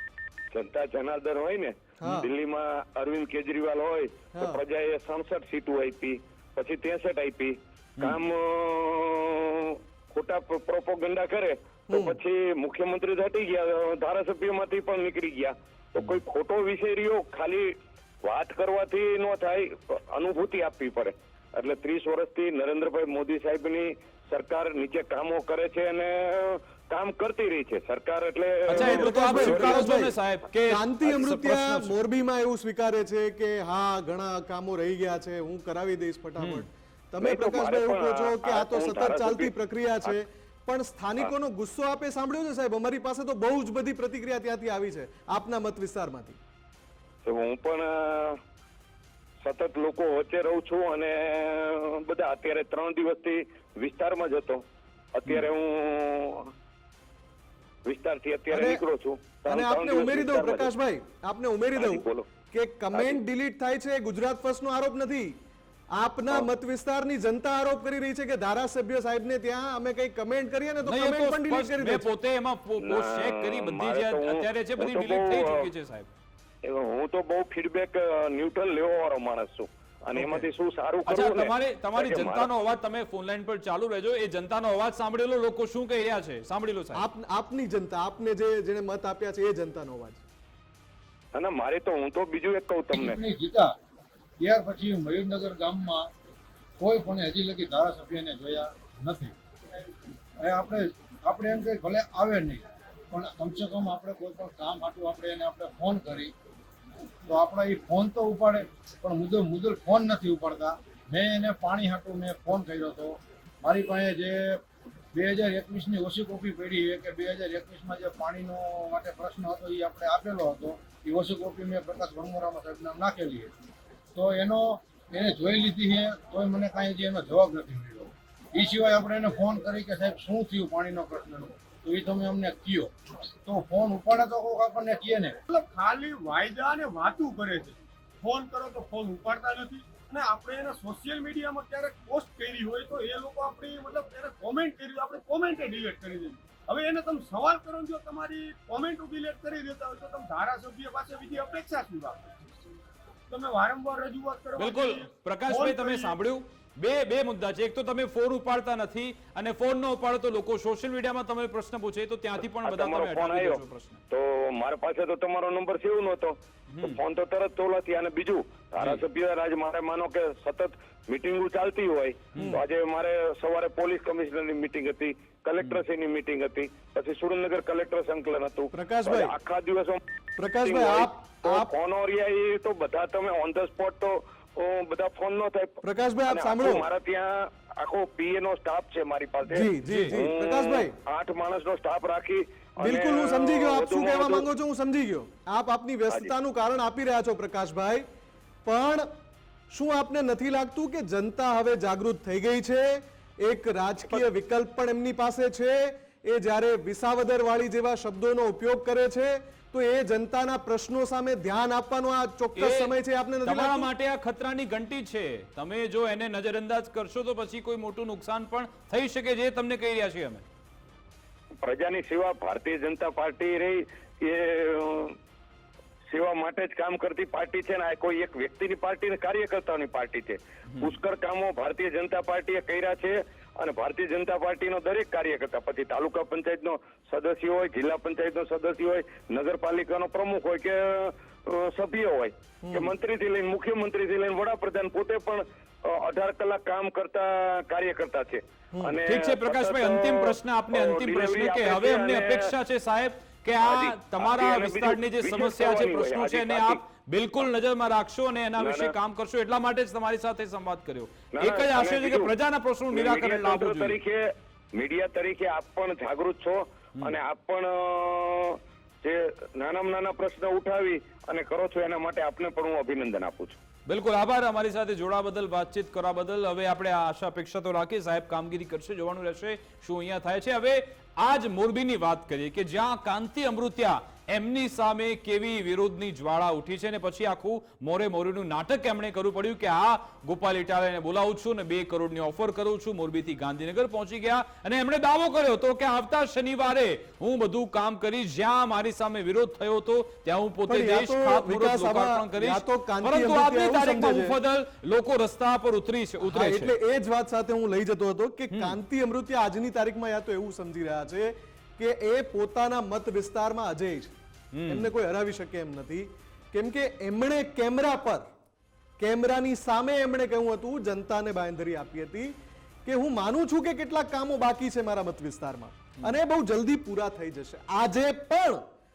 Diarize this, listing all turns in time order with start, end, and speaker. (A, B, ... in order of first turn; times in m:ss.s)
0:00.5-0:29.9 A
0:02.0-0:02.3 B
0:04.4-0:04.6 B
0:11.9-0:12.2 B
0:28.7-0:31.9 C
0:28.7-0:30.1 B
0:30.7-0:46.4 B
0:36.4-0:36.6 C
0:37.2-0:39.5 A
0:47.2-0:48.4 A
0:49.4-0:56.5 A
0:57.9-1:00.7 A
0:58.5-0:58.8 B
0:59.4-1:05.3 B
1:01.8-1:02.3 A
1:02.9-1:03.2 A
1:06.0-1:12.1 B
1:10.8-1:16.1 C
1:12.8-1:15.7 A
1:16.6-1:22.5 A
1:20.2-1:20.4 B
1:21.1-1:27.0 C
1:27.0-1:30.2 B
1:31.4-1:33.2 A
1:32.9-1:33.7 D
1:34.4-1:36.1 D
1:36.8-1:39.4 D
1:40.4-1:46.3 D
1:47.3-1:54.6 D
1:55.1-2:03.5 D
2:04.2-2:12.9 D
2:13.4-2:15.4 D
2:15.5-2:32.3 E
2:33.3-2:36.2 E
2:34.6-2:44.0 C
2:42.6-3:00.0 A
2:46.7-2:47.0 C
2:58.7-2:59.4 B
3:00.4-3:01.7 B
3:00.6-3:14.5 A
3:05.8-3:06.9 B
3:09.5-3:10.9 B
3:09.8-3:10.2 C
3:12.8-3:18.0 B
3:18.7-3:19.0 B
3:19.7-3:33.9 B
3:32.6-3:32.9 C
3:33.5-3:40.4 C
3:41.6-3:45.2 A
3:46.1-4:12.5 A
4:02.6-4:02.9 B
4:09.1-4:24.0 C
4:13.6-4:16.8 A
4:18.6-4:18.9 A
4:21.4-4:22.3 A
4:22.9-4:24.2 A
4:24.8-4:33.6 A
4:33.9-5:06.7 C
5:00.7-5:04.4 B
5:06.2-5:14.1 B
5:08.5-5:08.8 C
5:14.5-5:14.9 C
5:14.7-5:18.2 B
5:19.0-5:22.3 B
5:22.8-5:28.6 B